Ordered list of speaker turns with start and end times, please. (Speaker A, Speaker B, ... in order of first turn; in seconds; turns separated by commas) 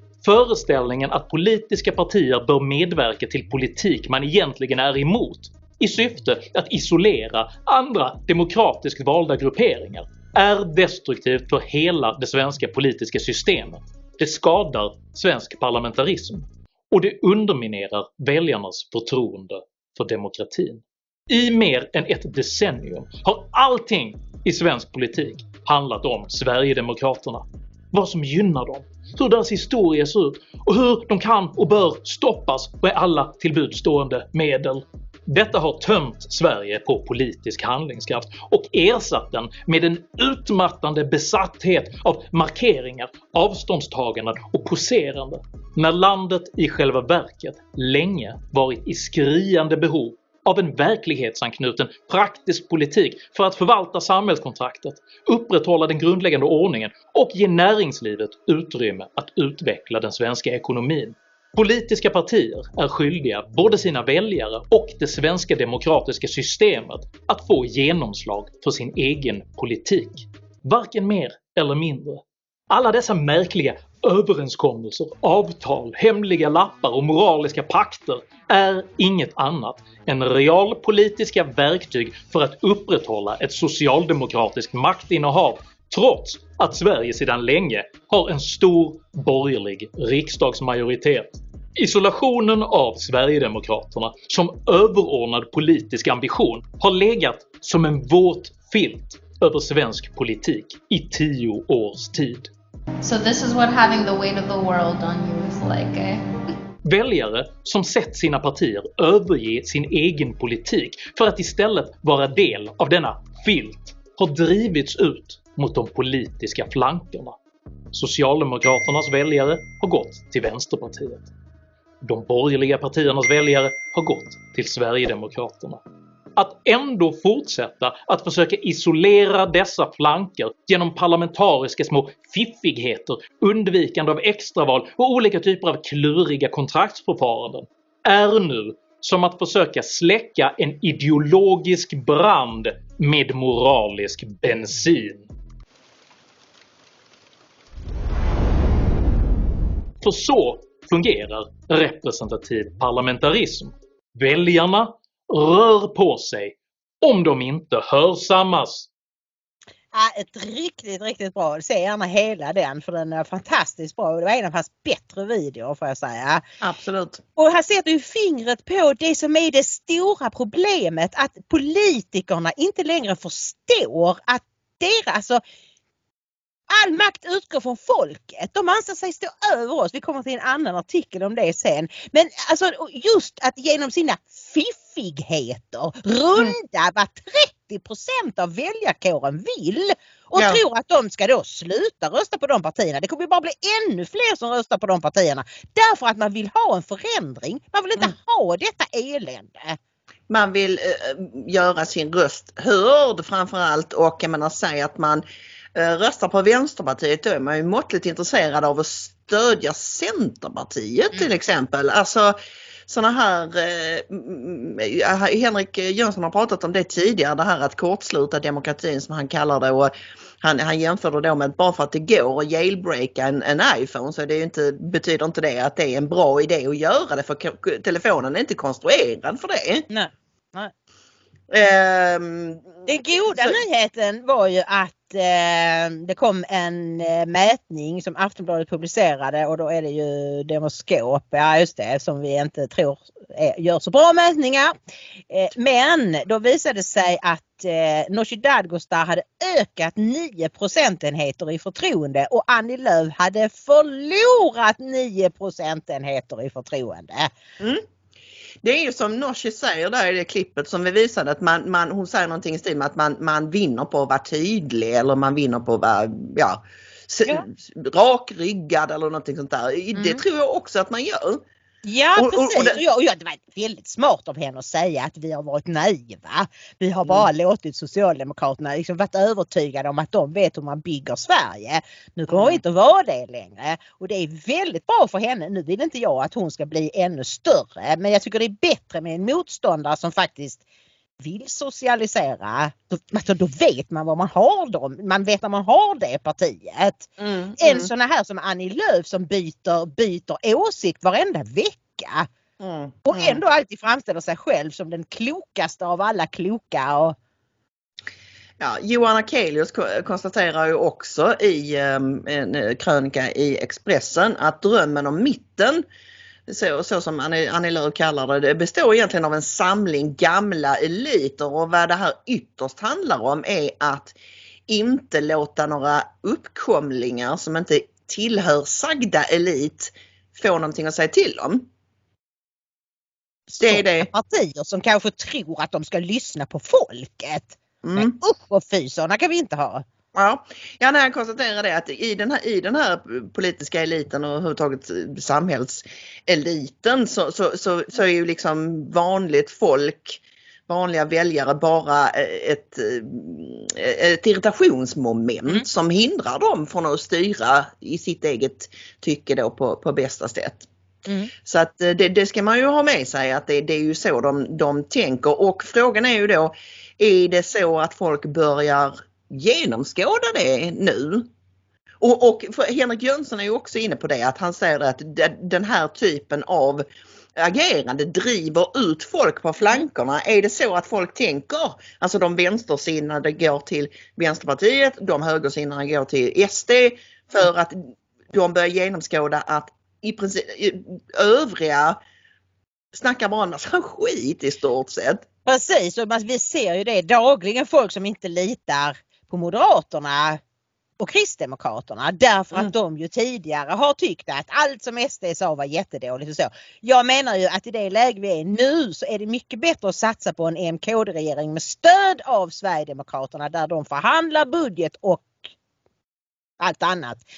Speaker A: 0.2-102.5, Speaker B: 103.0-106.2, Speaker A: 106.8-117.4, Speaker A: 117.9-121.3, Speaker A: 122.0-125.8, Speaker A: 126.4-145.3, Speaker A: 150.0-158.9, Speaker C: 159.9-166.4, Speaker D: 166.6-167.2, Speaker C: 167.4-175.4, Speaker C: 176.7-199.8, Speaker D: 190.4-190.6, Speaker D: 200.3-205.2, Speaker D: 205.8-212.4, Speaker D: 212.9-229.9, Speaker C: 229.9-230.7, Speaker D: 231.5-233.6, Speaker C: 232.9-244.7, Speaker C: 245.3-257.3, Speaker D: 258.6-271.4, Speaker C: 269.9-270.2, Speaker C: 271.9-290.6, Speaker D: 272.2-272.8, Speaker D: 282.3-282.6, Speaker C: 291.2-302.3, Speaker D: 297.2-297.9, Speaker D: 302.6-303.4, Speaker C: 303.1-307.2, Speaker D: 308.6-315.8, Speaker D: 316.5-324.2, Speaker D: 324.7-331.7, Speaker C: 333.5-339.9, Speaker D: 333.6-334.1, Speaker D: 337.8-338.1, Speaker D: 340.1-360.7, Speaker C: 361.1-361.3, Speaker D: 361.4-371.3, Speaker D: 372.0-392.0, Speaker D: 392.9-395.2, Speaker C: 395.5-400.4, Speaker C: 401.0-415.5, Speaker C: 416.6-417.2